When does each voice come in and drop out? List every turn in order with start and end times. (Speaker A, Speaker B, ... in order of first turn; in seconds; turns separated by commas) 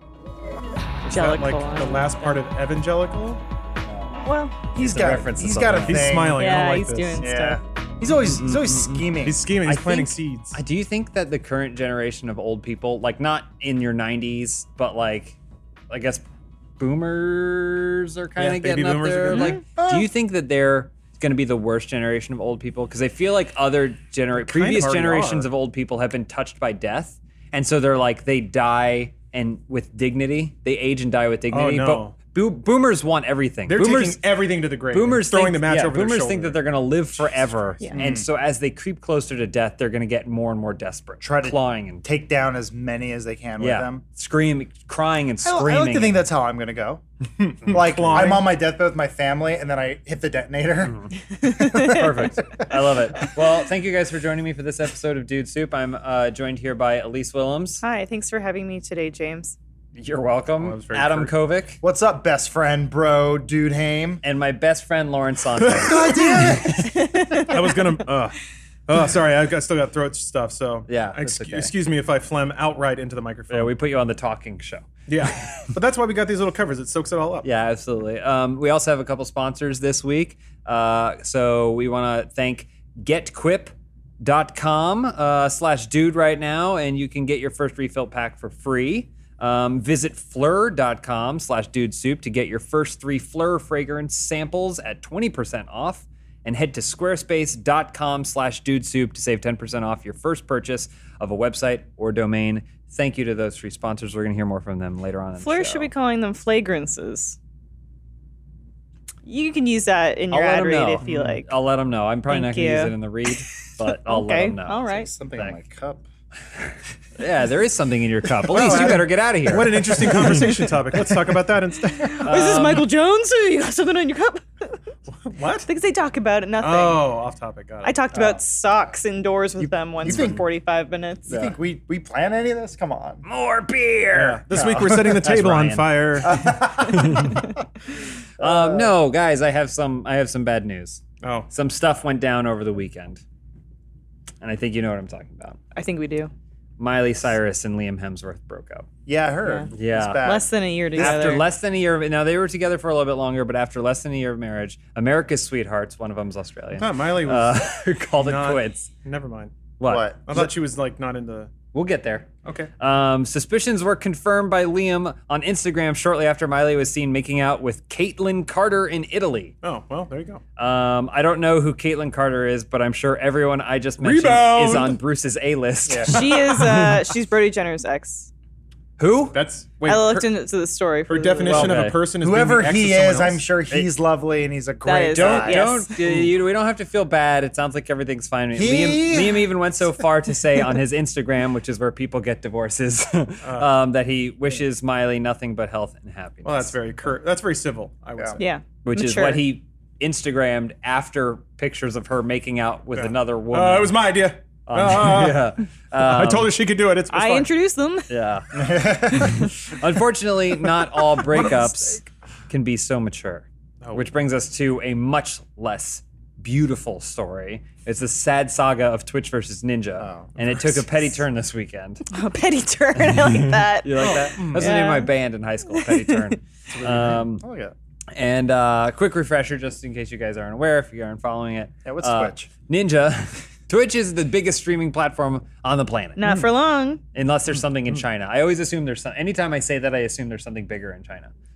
Speaker A: 1.1-3.4, Speaker B: 1.1-2.4, Speaker B: 4.2-4.7, Speaker C: 4.7-6.5, Speaker D: 4.7-6.2, Speaker A: 5.7-7.2, Speaker B: 6.3-7.6, Speaker C: 7.2-9.4, Speaker D: 8.2-15.4, Speaker A: 9.2-10.6, Speaker D: 15.9-16.2, Speaker D: 16.8-34.2, Speaker A: 18.4-20.0, Speaker B: 19.3-19.6, Speaker A: 24.4-25.5, Speaker A: 31.5-32.1, Speaker A: 33.7-36.6, Speaker D: 34.9-42.0, Speaker C: 37.9-38.3, Speaker C: 41.2-44.0, Speaker D: 43.6-46.2, Speaker C: 45.4-47.0, Speaker A: 47.4-48.5, Speaker C: 47.6-53.3, Speaker D: 48.0-48.3, Speaker D: 50.8-57.8, Speaker B: 51.5-51.9, Speaker B: 57.8-59.5, Speaker D: 60.0-61.8, Speaker A: 60.6-61.3, Speaker C: 61.8-64.2, Speaker D: 64.2-66.9, Speaker C: 65.7-67.4, Speaker B: 66.9-67.5, Speaker A: 67.3-73.7, Speaker D: 70.9-71.7, Speaker D: 73.5-75.7, Speaker A: 75.1-77.5, Speaker D: 77.4-105.9, Speaker B: 105.4-107.4, Speaker B: 109.2-111.5, Speaker D: 110.3-115.6, Speaker B: 112.3-112.9, Speaker B: 113.8-115.1, Speaker C: 114.8-116.0, Speaker D: 117.2-120.5, Speaker A: 118.5-122.6, Speaker B: 121.9-124.8, Speaker D: 122.2-122.9, Speaker A: 125.1-125.7, Speaker B: 125.7-127.1, Speaker A: 126.6-128.3, Speaker B: 127.8-131.3, Speaker C: 129.7-130.4, Speaker D: 130.1-130.4, Speaker C: 131.3-133.2, Speaker D: 131.3-131.6, Speaker D: 133.2-137.4, Speaker A: 134.1-136.5, Speaker C: 134.5-135.3, Speaker C: 136.2-137.5, Speaker C: 138.4-138.9, Speaker D: 138.4-143.2, Speaker A: 141.2-141.5, Speaker D: 144.4-145.6, Speaker B: 145.7-146.3, Speaker D: 146.8-148.9, Speaker C: 149.1-151.3, Speaker D: 149.7-150.3, Speaker B: 150.2-151.4, Speaker D: 151.0-158.9, Speaker A: 156.8-159.5, Speaker D: 159.8-160.1, Speaker C: 159.8-160.5, Speaker A: 160.3-161.5, Speaker D: 161.7-162.3, Speaker A: 162.4-162.7, Speaker D: 162.8-169.5, Speaker A: 169.6-170.4, Speaker D: 170.6-176.8, Speaker A: 174.0-175.0, Speaker C: 175.9-176.2, Speaker B: 176.1-178.3, Speaker A: 176.1-176.9, Speaker D: 179.0-179.4, Speaker A: 179.3-180.3, Speaker B: 179.8-181.7, Speaker A: 181.1-183.4, Speaker C: 181.5-185.8, Speaker D: 181.5-182.0, Speaker B: 184.8-185.9, Speaker D: 185.1-196.8, Speaker C: 188.5-189.5, Speaker A: 193.4-193.7, Speaker A: 196.4-198.4, Speaker B: 198.4-199.4, Speaker D: 198.8-204.0, Speaker A: 202.9-207.5, Speaker D: 204.7-206.5, Speaker B: 207.1-208.1, Speaker D: 208.1-222.1, Speaker C: 208.5-209.5, Speaker A: 211.4-211.7, Speaker C: 220.0-220.8, Speaker B: 222.1-225.1, Speaker D: 223.8-227.4, Speaker A: 224.0-224.8, Speaker B: 225.7-226.3, Speaker C: 226.7-227.7, Speaker D: 228.1-236.2, Speaker C: 231.8-232.5, Speaker B: 236.2-237.0, Speaker D: 237.1-241.3